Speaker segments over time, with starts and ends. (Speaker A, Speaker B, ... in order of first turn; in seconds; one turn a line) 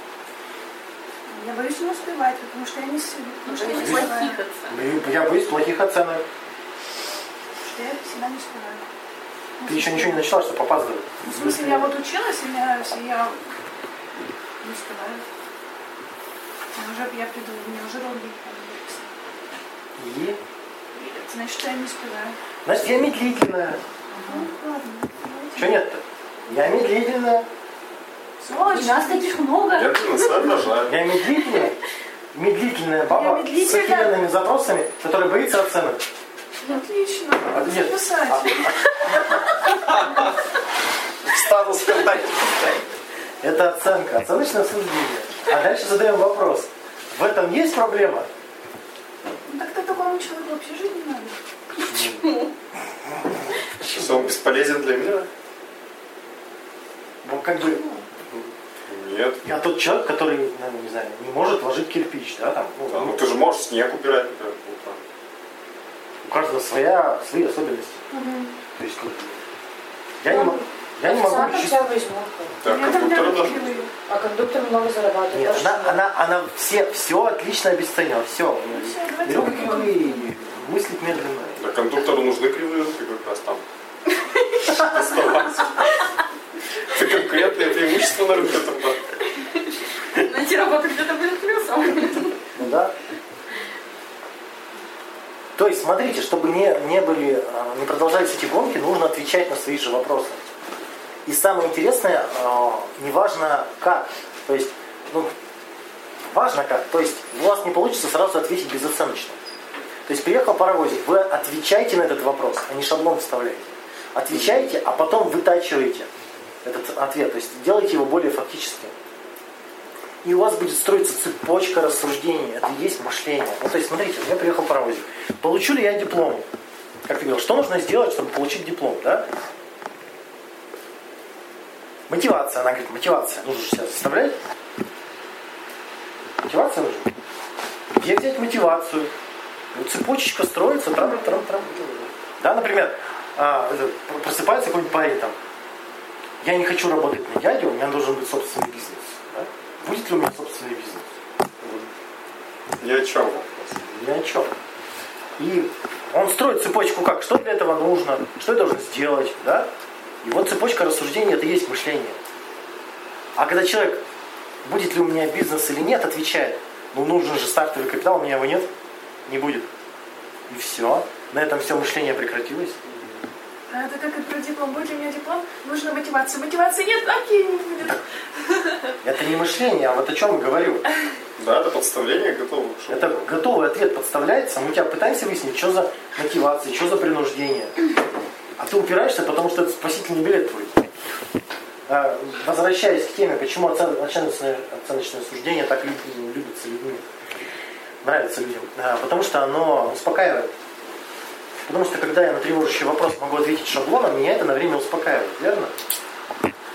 Speaker A: 1.3-4.4
Speaker B: 3.4-4.8
Speaker C: 3.7-4.2
Speaker C: 4.7-6.2
Speaker A: 7.7-8.9
Speaker A: 9.6-10.3
Speaker C: 9.7-11.9
Speaker A: 11.2-13.4
Speaker A: 14.6-15.2
Speaker A: 16.7-19.1
Speaker C: 20.0-20.4
Speaker A: 20.9-22.4
Speaker C: 22.6-23.8
Speaker A: 24.2-25.8
Speaker C: 25.5-27.5
Speaker A: 28.4-29.5
Speaker B: 28.7-29.2
Speaker D: 28.7-29.2
Speaker E: 29.6-31.0
Speaker C: 30.9-31.8
Speaker C: 32.3-36.0
Speaker A: 33.1-34.2
Speaker A: 36.6-38.8
Speaker C: 37.5-38.8
Speaker E: 39.7-40.3
Speaker E: 41.2-42.8
Speaker C: 43.4-48.3
Speaker A: 49.5-51.4
Speaker C: 51.8-52.4
Speaker C: 53.8-54.3
Speaker E: 53.8-55.3
Speaker C: 57.2-57.9
Speaker E: 58.3-59.4
Speaker C: 59.4-63.3
Speaker E: 62.9-65.0
Speaker C: 66.2-68.0
Speaker D: 68.1-68.5
Speaker C: 68.8-69.4
Speaker C: 70.2-71.9
Speaker D: 70.2-72.6
Speaker E: 72.6-73.9
Speaker A: 72.6-73.9
Speaker D: 74.1-76.0
Speaker C: 75.3-81.7
Speaker A: 78.7-80.3
Speaker E: 81.6-83.6
Speaker E: 84.7-86.0
Speaker E: 86.9-89.0
Speaker B: 90.1-92.3
Speaker C: 92.5-92.9
Speaker C: 95.5-100.4
Speaker C: 101.2-105.3
Speaker C: 106.3-109.4
Speaker C: 110.1-116.1
Speaker C: 116.6-118.9
Speaker C: 120.2-126.4
Speaker C: 127.0-129.3
Speaker C: 132.1-134.4
Speaker C: 136.4-137.1
Speaker C: 137.9-139.1
Speaker C: 139.7-141.7
Speaker E: 141.7-142.1
Speaker C: 142.4-145.3
Speaker C: 146.4-151.1
Speaker E: 151.6-151.9
Speaker E: 152.8-153.8
Speaker C: 153.8-154.5
Speaker C: 155.4-159.7
Speaker C: 160.2-162.2
Speaker C: 163.3-164.0
Speaker C: 164.6-168.7
Speaker C: 169.2-169.7
Speaker C: 170.5-172.8
Speaker E: 172.9-173.2
Speaker A: 173.7-178.0
Speaker C: 179.0-180.8
Speaker E: 181.4-183.3
Speaker C: 182.9-187.7
Speaker C: 188.6-190.8
Speaker C: 191.9-197.0
Speaker C: 198.0-200.5
Speaker C: 201.7-205.7